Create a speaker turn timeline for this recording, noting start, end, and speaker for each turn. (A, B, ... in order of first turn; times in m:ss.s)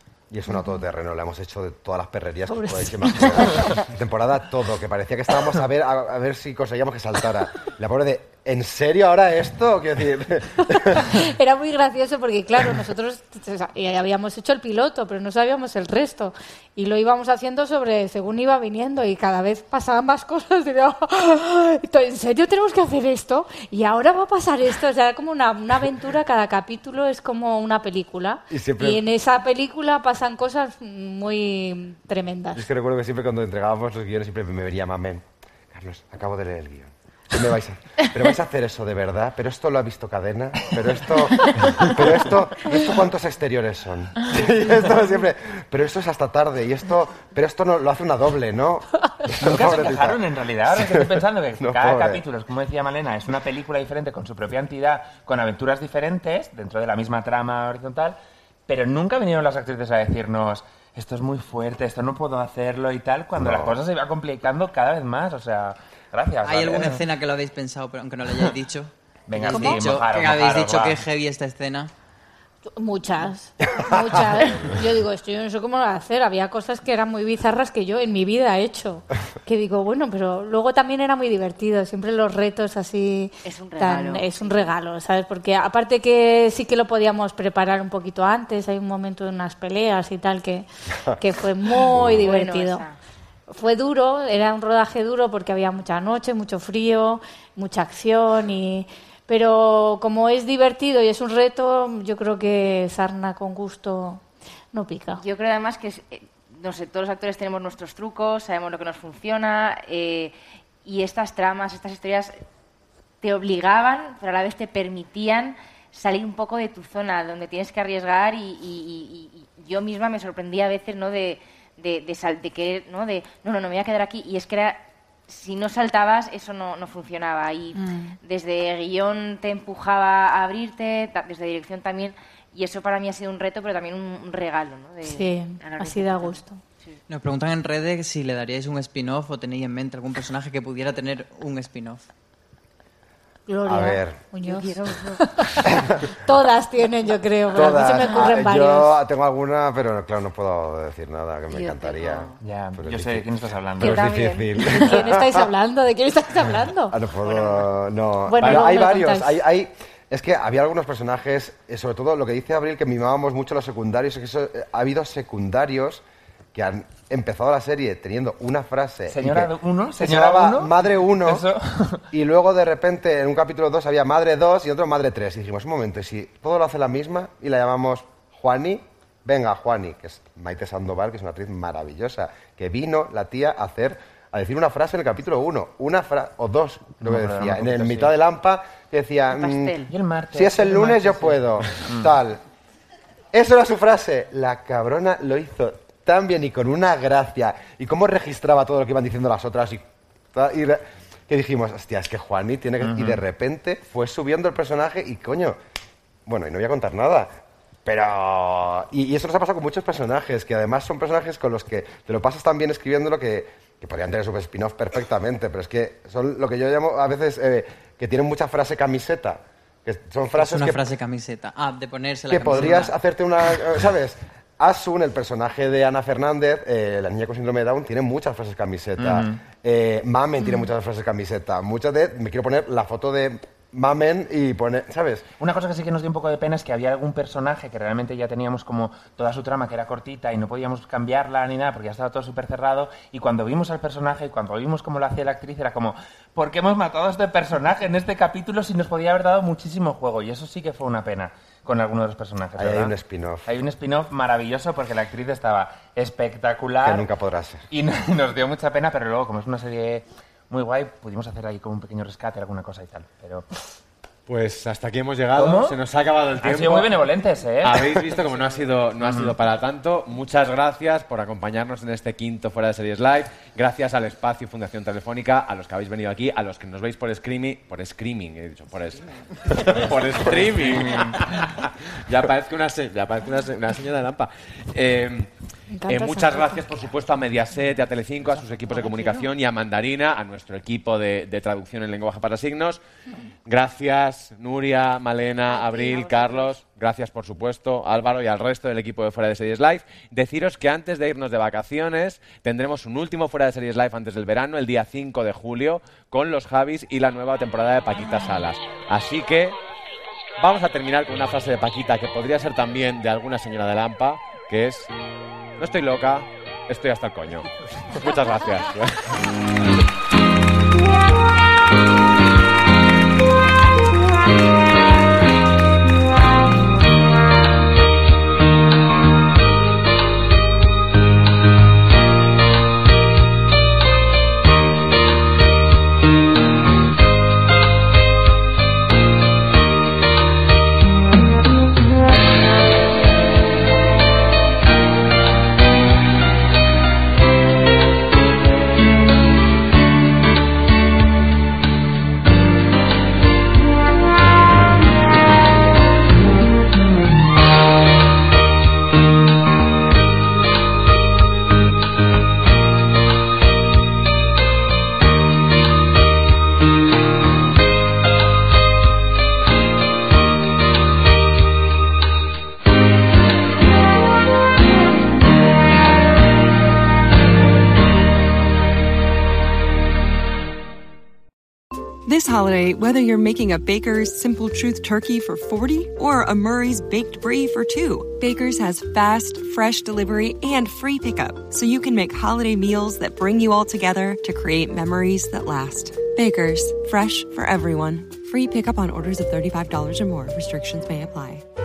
0:00.3-0:11.1 A
0:00.5-0:00.8 B
0:02.5-0:03.8 B
0:11.0-0:32.7 B
0:28.5-0:29.0 A
0:32.6-0:52.2 A
0:41.5-0:41.9 B
0:49.4-0:58.2 C
0:58.7-1:07.0 C
1:03.4-1:03.8 A
1:06.4-1:11.9 D
1:09.3-1:11.0 C
1:09.5-1:09.8 E
1:12.7-1:32.8 B
1:23.4-1:24.8 E
1:31.9-1:32.3 A
1:32.2-1:33.0 E
1:33.5-1:45.2 B
1:45.1-1:52.4 E
1:53.2-2:17.0 E
2:07.8-2:08.2 B
2:15.1-2:16.6 B
2:17.1-2:22.0 D
2:23.5-2:29.0 B
2:23.7-2:24.2 A
2:24.4-2:25.2 E
2:27.5-2:33.3 A
2:31.5-2:32.4 E
2:32.4-2:34.1 C
2:33.8-2:35.5 A
2:33.8-2:35.2 E
2:34.6-2:37.0 B
2:36.9-2:51.4 A
2:37.2-2:37.6 E
2:38.3-2:39.4 B
2:49.1-2:52.0 C
2:52.1-3:09.8 A
3:07.0-3:08.1 C
3:09.3-3:09.9 E
3:09.9-3:12.1 C
3:10.3-3:12.4 A
3:13.3-3:25.6 A
3:22.8-3:23.2 C
3:26.3-3:27.3 A
3:27.8-3:40.9 A
3:40.4-3:42.9 D
3:42.3-3:55.3 A
3:49.0-3:49.4 C
3:50.4-3:50.7 B
3:55.4-4:12.9 C
4:12.6-4:13.5 A
4:13.5-4:17.1 C
4:16.8-4:17.6 A
4:17.7-4:23.5 C
4:24.3-4:27.0 F
4:25.4-4:25.8 C
4:26.4-4:28.0 C
4:27.6-4:45.3 F
4:29.0-4:29.3 C
4:40.9-4:41.2 C
4:45.7-4:46.6 B
4:45.9-4:52.8 F
4:53.5-5:09.6 F
4:55.5-4:56.5 E
5:10.4-5:14.9 F
5:15.6-5:19.1 F
6:22.1-6:41.4 G